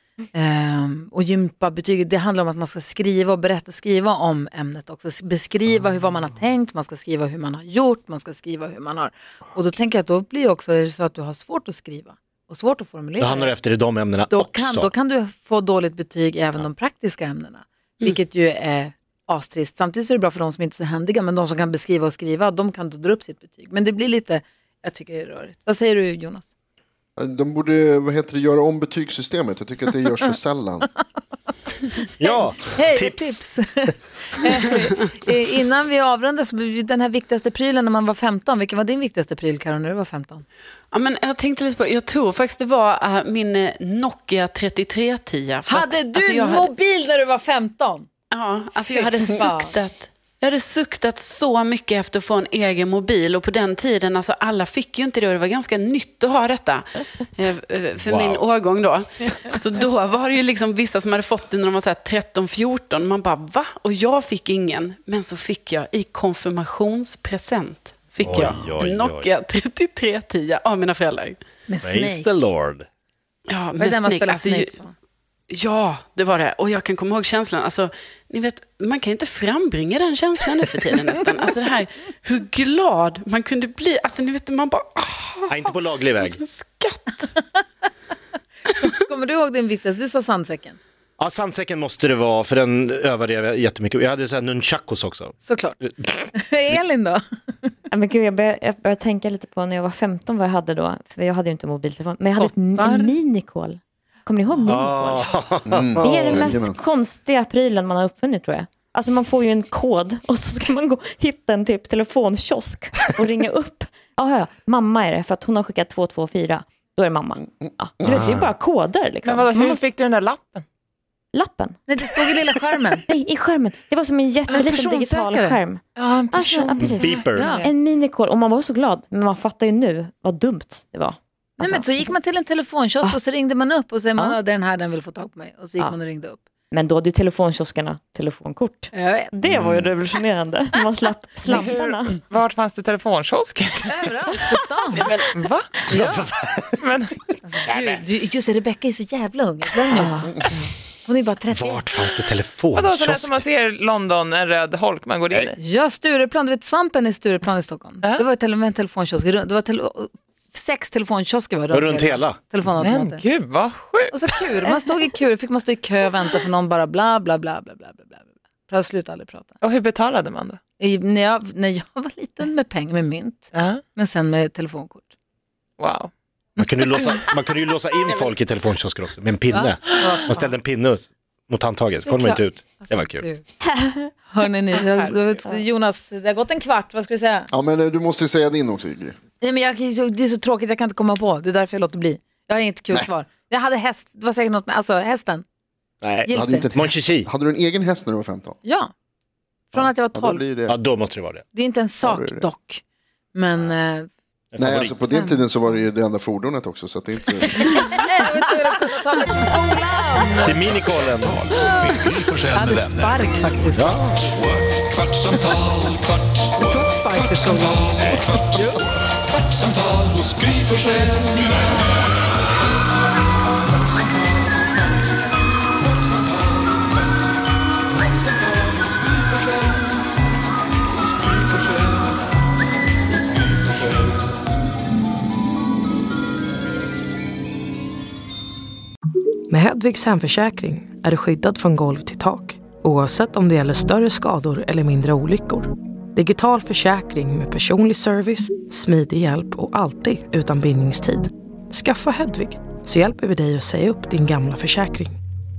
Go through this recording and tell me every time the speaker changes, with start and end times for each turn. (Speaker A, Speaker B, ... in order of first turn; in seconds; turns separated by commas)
Speaker A: 0.3-13.6, Speaker B: 13.2-14.9, Speaker A: 14.3-26.5, Speaker C: 27.2-30.9, Speaker B: 32.2-33.4, Speaker A: 32.2-40.4, Speaker D: 40.9-46.7, Speaker A: 45.6-48.1, Speaker D: 48.3-71.4, Speaker A: 48.8-49.7, Speaker B: 58.0-58.4, Speaker B: 68.2-69.3, Speaker A: 71.7-72.5, Speaker B: 71.8-72.8, Speaker D: 73.5-74.7, Speaker A: 73.8-74.9, Speaker D: 75.5-87.2, Speaker B: 85.5-86.4, Speaker A: 88.8-90.8, Speaker B: 91.2-95.3, Speaker A: 95.4-95.8, Speaker A: 96.3-97.7, Speaker E: 97.9-105.2, Speaker A: 102.3-103.1, Speaker B: 104.7-106.4, Speaker C: 105.7-106.8, Speaker E: 106.0-119.5, Speaker B: 118.1-118.5, Speaker F: 119.2-120.6, Speaker E: 121.3-121.9, Speaker A: 121.9-123.0, Speaker E: 123.1-132.1, Speaker A: 124.5-125.6, Speaker F: 126.0-127.7, Speaker B: 126.8-127.5, Speaker A: 127.3-127.7, Speaker A: 131.6-136.4, Speaker E: 136.7-142.2, Speaker A: 138.9-139.3, Speaker C: 139.5-139.8, Speaker F: 141.4-144.6, Speaker A: 143.8-145.1, Speaker D: 145.0-145.2, Speaker F: 145.3-145.8, Speaker A: 145.8-146.3, Speaker B: 145.9-146.8, Speaker F: 146.8-147.1, Speaker A: 147.4-150.5, Speaker F: 147.7-148.0, Speaker E: 150.0-150.3, Speaker A: 151.0-151.8, Speaker B: 151.5-153.3, Speaker F: 152.7-155.6, Speaker A: 155.6-163.2, Speaker B: 161.7-162.4, Speaker F: 162.8-164.4, Speaker A: 164.1-169.5, Speaker F: 169.6-170.6, Speaker A: 170.8-175.1, Speaker F: 173.5-173.8, Speaker F: 175.8-176.1, Speaker A: 176.6-176.9, Speaker B: 176.6-183.2, Speaker A: 179.5-180.5, Speaker A: 182.1-183.5, Speaker A: 184.1-187.5, Speaker F: 184.7-185.2, Speaker C: 187.5-189.2, Speaker A: 189.4-195.4, Speaker B: 196.0-197.3, Speaker A: 196.2-196.7, Speaker C: 196.3-198.6, Speaker A: 198.6-198.9, Speaker A: 199.7-200.4, Speaker C: 199.7-200.8, Speaker B: 200.7-201.4, Speaker A: 201.5-202.8, Speaker C: 202.0-202.5, Speaker A: 203.3-204.1, Speaker B: 204.5-205.0, Speaker C: 204.6-207.8, Speaker A: 207.6-210.6, Speaker B: 210.4-211.4, Speaker G: 210.6-213.2, Speaker A: 211.5-214.0, Speaker B: 213.7-214.2, Speaker G: 214.4-214.7, Speaker A: 216.6-218.8, Speaker H: 239.5-255.2